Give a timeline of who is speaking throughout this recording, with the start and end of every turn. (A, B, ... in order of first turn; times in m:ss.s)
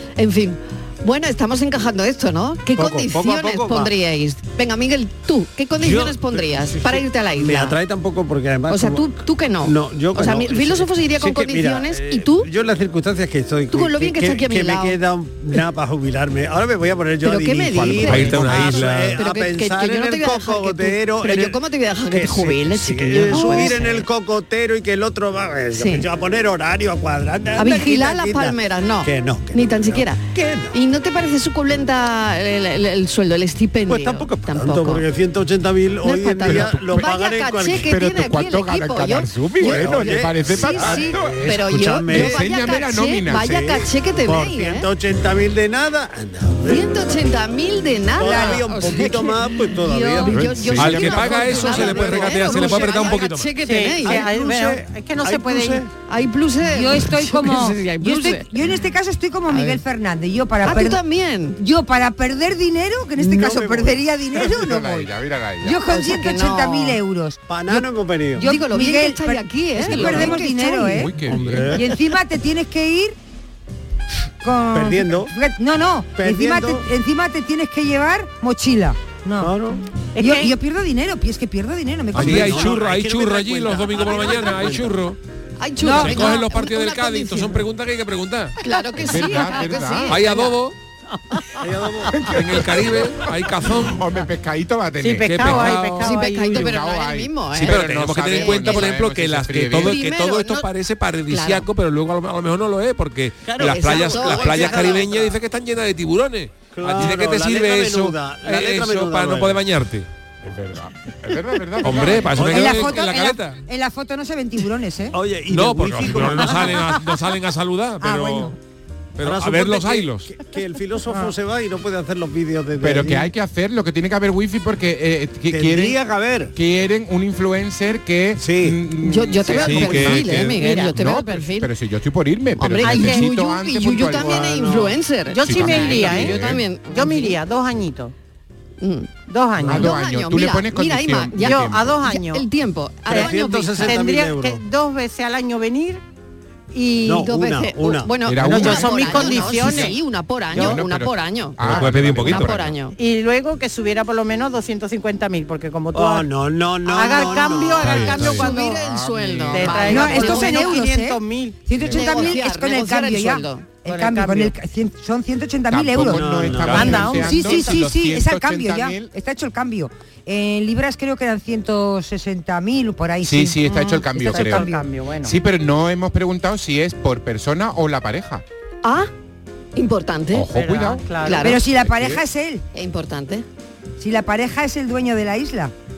0:00.2-0:07.8 A
0:02.7-0:03.9 B
0:05.8-0:30.7 B
0:08.7-0:12.5 A
0:13.7-0:15.0 A
0:17.2-0:24.1 A
0:18.0-0:19.2 C
0:25.7-0:26.0 A
0:27.5-0:35.1 A
0:33.9-0:37.9 B
0:36.0-0:44.9 A
0:36.4-0:37.1 D
0:37.7-0:41.5 D
0:39.6-0:42.5 B
0:42.1-0:43.8 D
0:43.3-0:47.1 B
0:46.6-0:54.3 A
0:48.1-0:50.5 B
0:48.2-0:48.6 E
0:49.8-0:50.3 E
0:50.3-0:53.5 C
0:50.4-0:52.4 D
0:52.3-0:53.2 B
0:53.6-0:55.8 F
0:54.0-0:55.9 B
0:56.1-0:58.4 A
0:56.7-1:01.0 E
0:59.5-0:59.8 A
1:00.6-1:01.6 A
1:01.6-1:05.1 E
1:03.2-1:04.0 B
1:04.3-1:05.8 D
1:05.6-1:13.2 E
1:05.8-1:07.0 A
1:07.5-1:08.4 B
1:08.4-1:11.0 A
1:09.8-1:10.4 B
1:10.8-1:11.8 D
1:11.3-1:11.8 B
1:14.4-1:19.5 E
1:14.7-1:15.3 B
1:16.1-1:16.9 B
1:19.4-1:19.8 B
1:20.2-1:20.5 F
1:20.2-1:22.6 E
1:22.1-1:25.0 B
1:22.1-1:25.2 C
1:25.6-1:27.6 A
1:25.8-1:26.4 E
1:25.9-1:28.6 C
1:28.6-1:30.6 A
1:29.0-1:30.2 D
1:30.1-1:30.7 C
1:31.3-1:31.6 F
1:31.6-1:32.4 B
1:32.2-1:34.0 C
1:33.7-1:40.0 D
1:35.0-1:36.8 F
1:35.3-1:36.0 C
1:35.7-1:39.0 A
1:37.6-1:50.1 C
1:39.8-1:40.7 A
1:41.3-1:41.7 A
1:43.4-1:45.4 B
1:43.6-1:45.2 A
1:46.7-1:49.6 B
1:50.4-1:52.6 D
1:51.8-1:53.6 C
1:52.1-1:53.0 B
1:52.5-1:55.2 E
1:55.1-1:57.2 B
1:55.5-1:58.5 C
1:58.0-1:58.5 E
1:59.2-2:00.4 C
1:59.2-2:03.3 B
2:02.8-2:06.0 D
2:05.5-2:06.5 B
2:06.5-2:14.6 D
2:08.4-2:08.8 B
2:09.0-2:11.7 A
2:09.6-2:10.7 C
2:10.6-2:10.9 F
2:12.6-2:17.4 A
2:12.8-2:13.3 F
2:14.1-2:15.0 B
2:15.3-2:18.1 F
2:15.4-2:16.6 D
2:18.8-2:19.1 A
2:19.3-2:20.0 F
2:19.6-2:21.9 D
2:19.6-2:24.0 A
2:21.4-2:22.4 F
2:23.1-2:26.0 F
2:23.1-2:24.6 B
2:26.7-2:27.2 F
2:27.0-2:28.2 B
2:27.1-2:33.0 A
2:28.2-2:29.9 D
2:28.4-2:30.0 F
2:30.5-2:32.8 D
2:31.6-2:32.6 C
2:33.0-2:36.3 F
2:35.9-2:38.1 B
2:36.8-2:38.8 F
2:37.8-2:38.4 C
2:38.0-2:40.0 D
2:38.0-2:40.8 A
2:39.5-2:41.6 F
2:39.9-2:53.6 E
2:41.8-2:42.3 D
2:41.9-2:43.7 A
2:43.8-2:44.5 F
2:45.7-2:49.1 D
2:46.0-2:47.3 B
2:46.8-2:47.7 F
2:53.2-2:54.7 D
2:53.7-2:55.4 F
2:54.1-2:54.8 E
2:55.2-2:58.4 D
2:58.8-2:59.1 A
2:59.7-3:00.5 A
3:00.3-3:01.0 D
3:00.5-3:01.6 F
3:01.2-3:01.6 A
3:01.4-3:02.6 E
3:01.7-3:02.2 D
3:02.7-3:03.4 A
3:04.0-3:05.7 E